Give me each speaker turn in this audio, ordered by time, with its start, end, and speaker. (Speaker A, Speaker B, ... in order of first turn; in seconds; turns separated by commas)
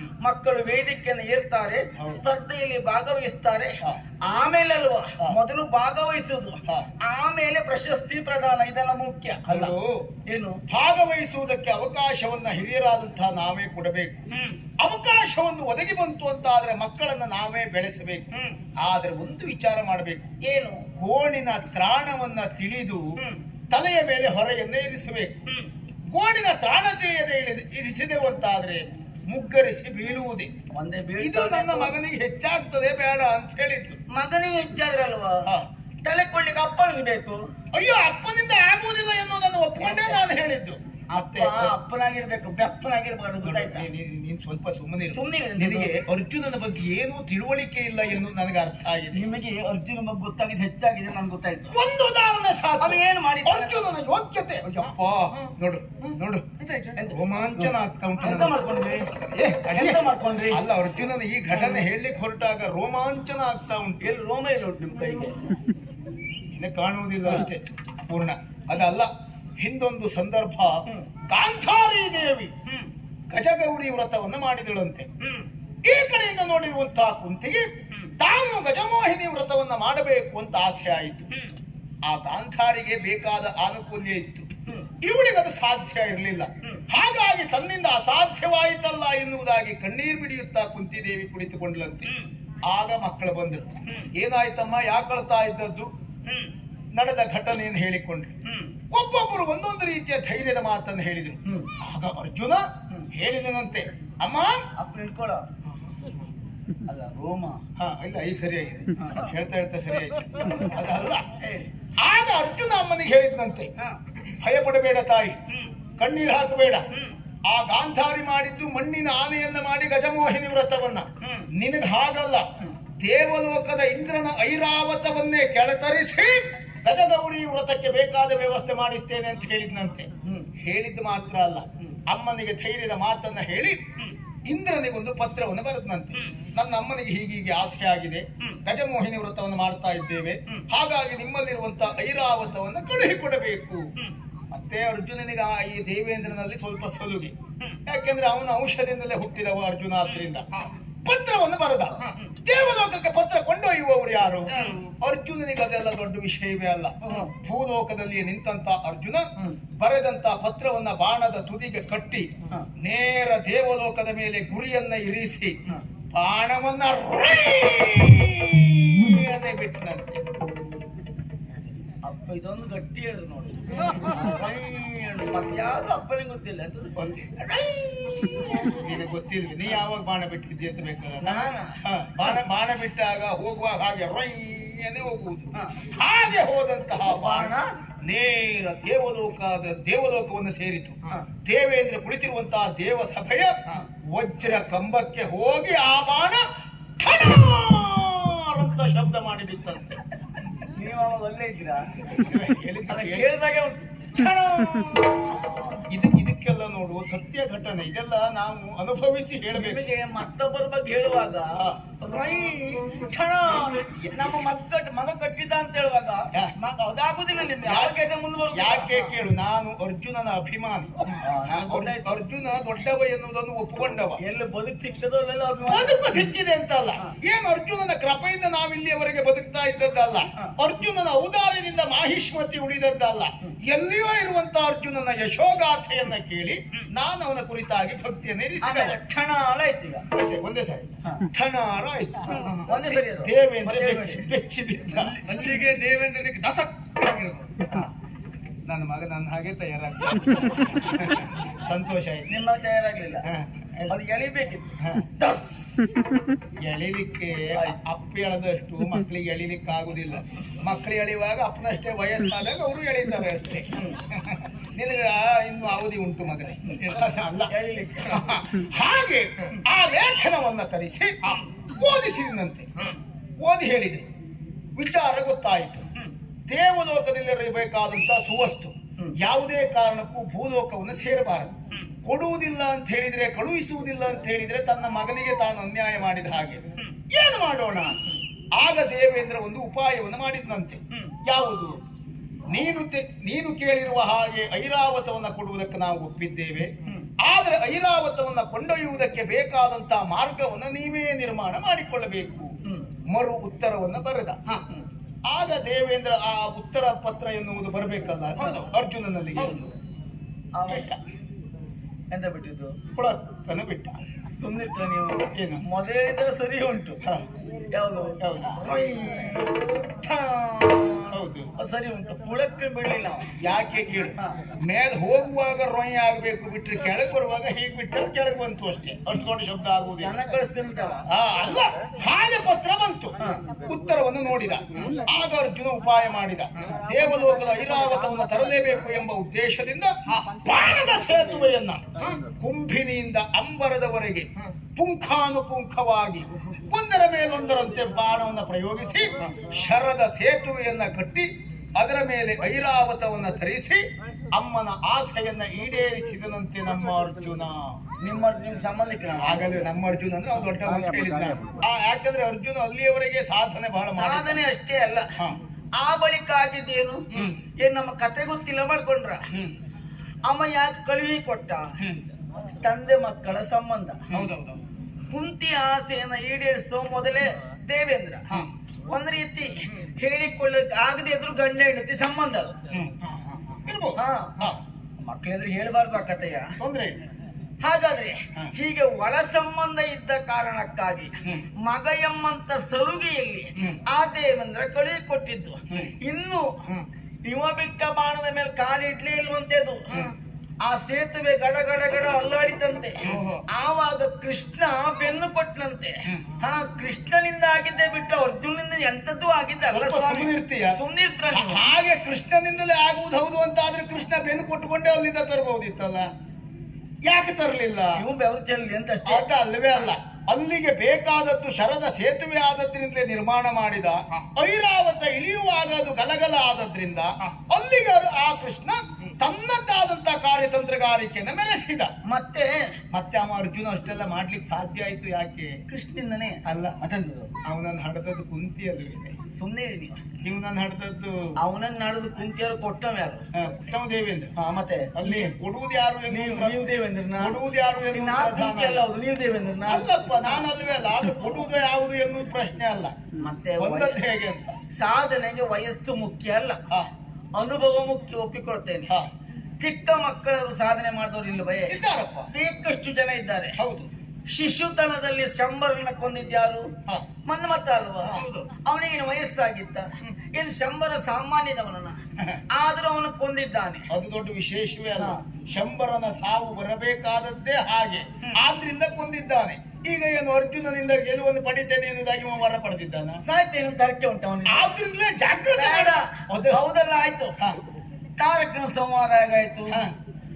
Speaker A: 0.2-9.7, Speaker B: 2.0-2.2, Speaker B: 9.5-10.1, Speaker A: 10.3-10.6, Speaker B: 10.7-14.3, Speaker A: 14.3-14.6, Speaker B: 14.8-18.3, Speaker A: 18.3-18.6, Speaker B: 18.8-20.3, Speaker A: 20.4-20.9, Speaker B: 21.0-23.1, Speaker B: 23.7-25.4, Speaker B: 26.1-30.5, Speaker A: 30.7-31.9, Speaker B: 31.2-34.0, Speaker A: 34.1-35.5, Speaker A: 36.0-37.5, Speaker B: 37.7-41.7, Speaker A: 39.8-40.2, Speaker A: 41.1-43.9, Speaker B: 43.4-49.3, Speaker A: 45.1-46.0, Speaker A: 49.1-51.7, Speaker B: 51.7-58.5, Speaker A: 52.8-53.8, Speaker C: 56.6-57.0, Speaker A: 57.0-59.1, Speaker B: 59.3-64.0, Speaker A: 59.7-60.6, Speaker A: 64.0-65.4, Speaker B: 66.5-72.5, Speaker B: 73.3-75.1, Speaker A: 75.2-75.5, Speaker B: 75.8-81.3, Speaker B: 82.0-84.5, Speaker B: 85.0-92.1, Speaker B: 92.7-95.9, Speaker A: 96.3-96.5, Speaker B: 97.0-98.3, Speaker A: 98.5-98.8, Speaker B: 98.9-104.6, Speaker A: 101.5-101.7, Speaker A: 104.8-105.5, Speaker A: 106.9-107.6, Speaker B: 107.8-111.3, Speaker A: 109.0-109.3, Speaker A: 110.4-110.7, Speaker A: 111.4-111.7, Speaker B: 112.0-113.7, Speaker B: 114.4-115.4, Speaker B: 116.0-116.8, Speaker B: 117.5-122.5, Speaker A: 121.2-121.5, Speaker B: 123.0-133.8, Speaker A: 130.2-130.5, Speaker B: 134.5-143.9, Speaker B: 144.5-147.3, Speaker B: 147.9-150.5, Speaker B: 151.0-165.6, Speaker C: 154.5-154.9, Speaker B: 166.1-170.2, Speaker A: 172.0-178.8, Speaker C: 173.8-174.1, Speaker B: 177.0-177.3, Speaker B: 178.8-196.4, Speaker A: 181.2-181.8, Speaker A: 185.6-185.8, Speaker A: 187.1-187.7, Speaker B: 197.0-200.0, Speaker A: 200.7-202.2, Speaker B: 202.2-203.3, Speaker A: 202.9-205.4, Speaker B: 205.9-209.8, Speaker A: 209.5-219.1, Speaker B: 214.0-214.4, Speaker B: 217.6-218.0, Speaker B: 218.5-220.9, Speaker A: 221.1-222.1, Speaker B: 221.4-224.2, Speaker A: 224.2-226.2, Speaker B: 225.7-239.0, Speaker A: 238.6-240.1, Speaker B: 240.1-245.2, Speaker A: 242.7-244.3, Speaker C: 244.9-247.5, Speaker B: 248.7-252.3, Speaker A: 252.3-253.2, Speaker B: 253.2-253.9, Speaker A: 253.9-255.4, Speaker B: 254.8-255.1, Speaker B: 256.6-267.5, Speaker A: 263.8-264.0, Speaker A: 267.5-268.3, Speaker B: 268.0-271.2, Speaker B: 271.7-272.7, Speaker B: 273.4-274.1, Speaker B: 274.8-275.9, Speaker B: 276.5-288.0, Speaker B: 288.5-291.8, Speaker A: 290.9-291.2, Speaker B: 292.5-302.5, Speaker B: 303.1-304.4, Speaker B: 305.3-309.6, Speaker C: 308.4-308.7, Speaker C: 309.4-309.7, Speaker A: 310.6-310.9, Speaker B: 310.7-311.0, Speaker A: 312.1-312.8, Speaker B: 312.9-314.0, Speaker A: 314.4-317.0, Speaker B: 315.3-315.6, Speaker A: 317.7-323.3, Speaker B: 318.2-318.6, Speaker B: 321.1-321.5, Speaker B: 323.4-330.2, Speaker A: 330.0-331.0, Speaker B: 331.1-357.8, Speaker C: 340.1-340.4, Speaker A: 358.0-359.6, Speaker B: 359.1-364.4, Speaker A: 364.0-365.1, Speaker A: 365.8-367.1, Speaker A: 367.6-369.3, Speaker B: 369.3-369.5, Speaker A: 370.2-371.8, Speaker A: 372.6-374.0, Speaker C: 374.1-374.6, Speaker A: 375.1-378.3, Speaker A: 378.9-382.6, Speaker B: 383.6-384.6, Speaker A: 384.0-384.5, Speaker A: 385.0-386.6, Speaker B: 386.6-387.0, Speaker A: 387.6-396.5, Speaker B: 395.7-395.9, Speaker A: 397.2-399.9, Speaker A: 400.6-411.7, Speaker C: 403.1-403.4, Speaker B: 409.6-410.8, Speaker B: 411.3-416.1, Speaker B: 417.0-418.0, Speaker A: 417.9-419.3, Speaker B: 419.1-431.9, Speaker A: 432.1-432.7, Speaker B: 432.9-435.6, Speaker A: 435.7-437.3, Speaker B: 436.4-436.8, Speaker B: 437.4-439.2, Speaker A: 439.4-440.0, Speaker B: 440.2-441.4, Speaker A: 441.4-443.2, Speaker B: 443.3-444.3, Speaker A: 444.4-445.2, Speaker B: 444.9-448.9, Speaker A: 446.1-447.4, Speaker A: 447.9-450.4, Speaker B: 449.7-453.0, Speaker A: 453.2-454.0, Speaker B: 453.6-454.6, Speaker A: 454.7-456.6, Speaker A: 457.4-458.9, Speaker A: 459.6-463.6, Speaker B: 461.7-462.3, Speaker B: 463.6-463.9, Speaker A: 464.3-466.7, Speaker A: 467.3-472.0, Speaker B: 468.0-468.3, Speaker C: 468.2-468.5, Speaker A: 472.5-473.9, Speaker B: 473.9-483.2, Speaker A: 483.3-484.7, Speaker B: 484.5-486.6, Speaker A: 485.6-487.3, Speaker A: 488.2-489.8, Speaker B: 489.7-489.9